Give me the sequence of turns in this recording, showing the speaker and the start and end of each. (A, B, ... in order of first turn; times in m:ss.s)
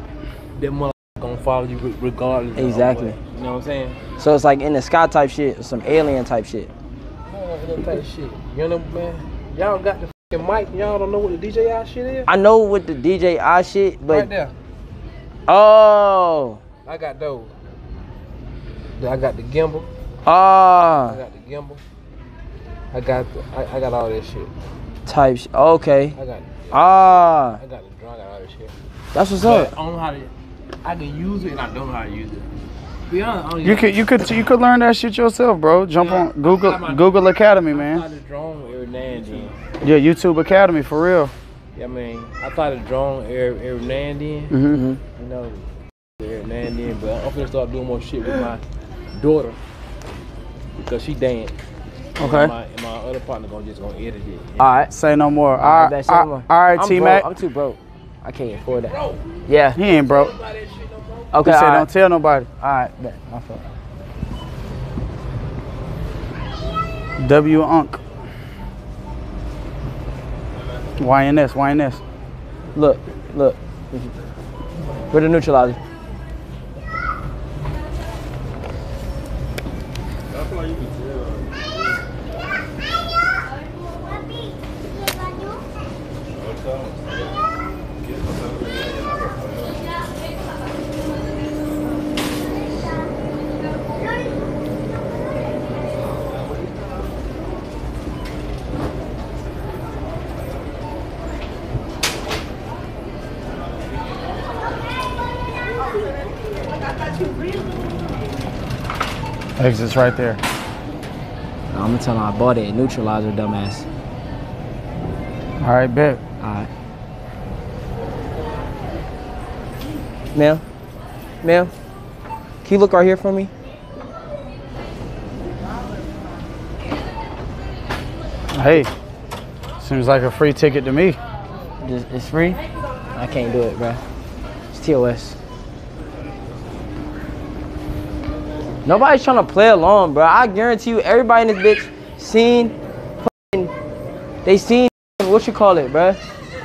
0:00.5-0:04.0 A
0:02.5-0:03.2 B
0:04.2-0:06.7 B
0:07.3-0:12.3 A
0:12.3-0:14.3 B
0:14.1-0:14.5 A
0:15.5-0:16.6 B
0:16.8-0:17.5 A
0:19.0-0:19.9 A
0:20.2-0:21.2 B
0:21.0-0:21.8 A
0:22.9-0:24.5 A
0:25.0-0:26.2 B
0:26.1-0:28.7 A
0:26.7-0:27.6 B
0:29.1-0:29.7 B
0:29.4-0:30.3 A
0:30.8-0:32.5 A
0:33.1-0:34.0 A
0:33.6-0:38.0 C
0:36.0-0:39.5 A
0:39.8-0:41.3 C
0:41.7-0:44.6 A
0:44.5-0:44.8 C
0:44.7-0:45.0 B
0:45.2-0:45.7 A
0:46.2-0:48.6 A
0:49.1-0:49.6 A
0:50.8-0:51.5 A
0:52.2-0:54.6 A
0:52.2-0:52.5 C
0:54.6-0:54.9 B
0:54.9-0:57.3 C
0:55.6-0:59.8 B
0:58.9-0:59.2 A
0:59.7-1:00.3 C
0:59.9-1:01.3 A
1:01.3-1:01.9 B
1:01.4-1:02.5 C
1:02.6-1:03.6 B
1:07.2-1:08.0 C
1:11.0-1:12.0 C
1:12.7-1:14.1 B
1:15.1-1:15.8 B
1:49.6-1:50.4 C
1:51.7-1:53.8 B
1:55.6-1:56.2 C
1:56.4-1:56.7 B
2:00.3-2:00.6 B
2:01.4-2:01.7 B
2:02.6-2:03.5 B
2:08.5-2:08.9 C
2:09.8-2:11.2 C
2:11.8-2:12.6 B
2:13.1-2:14.0 B
2:14.7-2:15.4 B
2:18.8-2:23.7 B
2:24.4-2:26.2 B